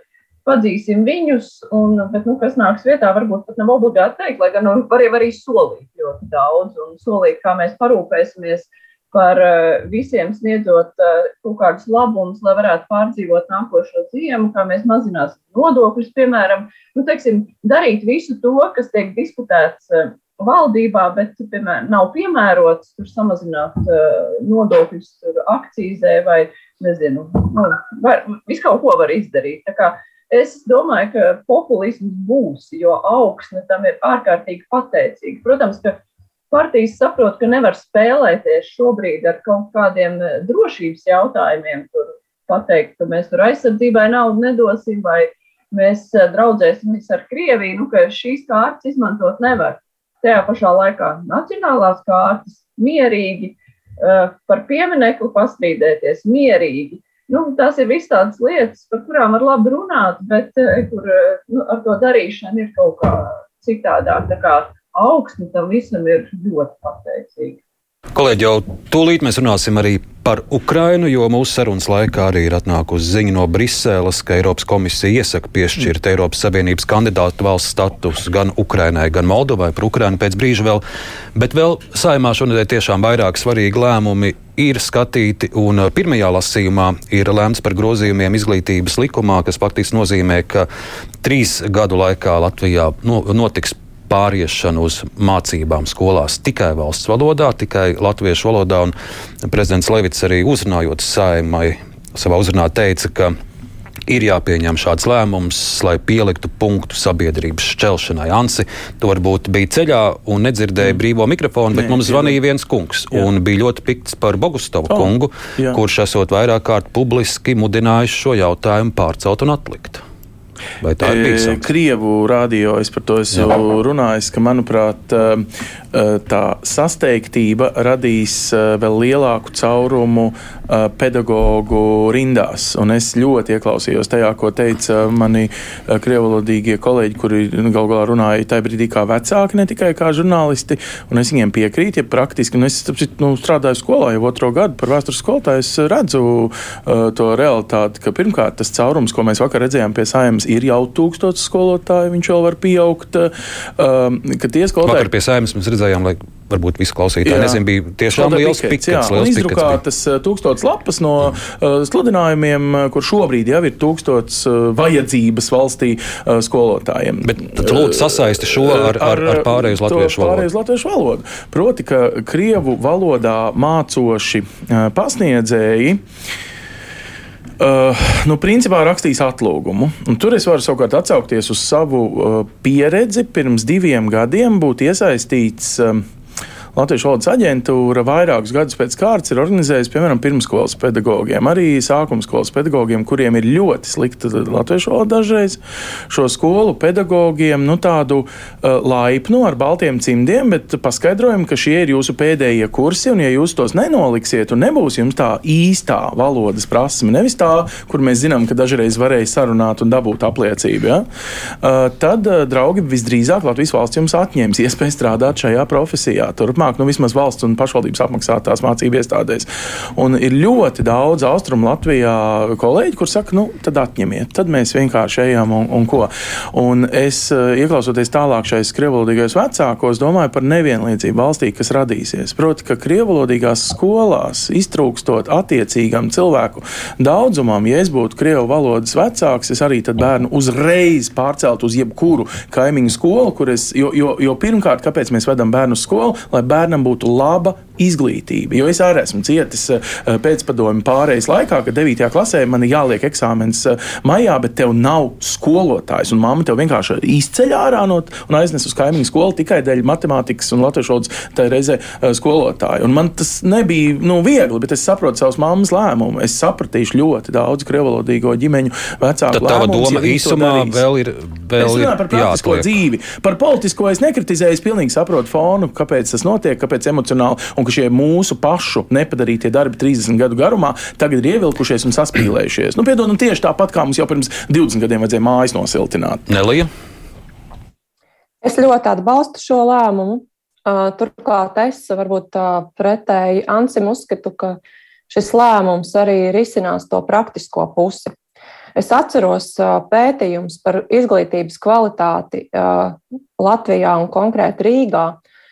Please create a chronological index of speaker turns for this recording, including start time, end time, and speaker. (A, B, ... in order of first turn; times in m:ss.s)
0:00.5-0:36.0 A
0:36.5-1:07.6 A
1:08.1-1:20.8 B
1:21.4-1:30.7 B
1:31.2-1:43.4 B
1:44.1-2:00.0 B
1:51.7-1:52.4 C
1:54.9-1:55.8 C
2:00.8-2:01.6 B
2:01.0-2:35.1 C
2:34.8-2:39.8 B
2:37.2-2:56.0 C
2:47.2-2:50.4 B
2:57.6-3:06.0 C
3:06.7-3:31.1 C
3:31.6-4:30.8 C
4:29.3-4:32.7 B
4:31.6-4:46.3 C
4:46.3-4:46.7 B
4:48.4-4:58.1 D
4:58.8-5:05.2 D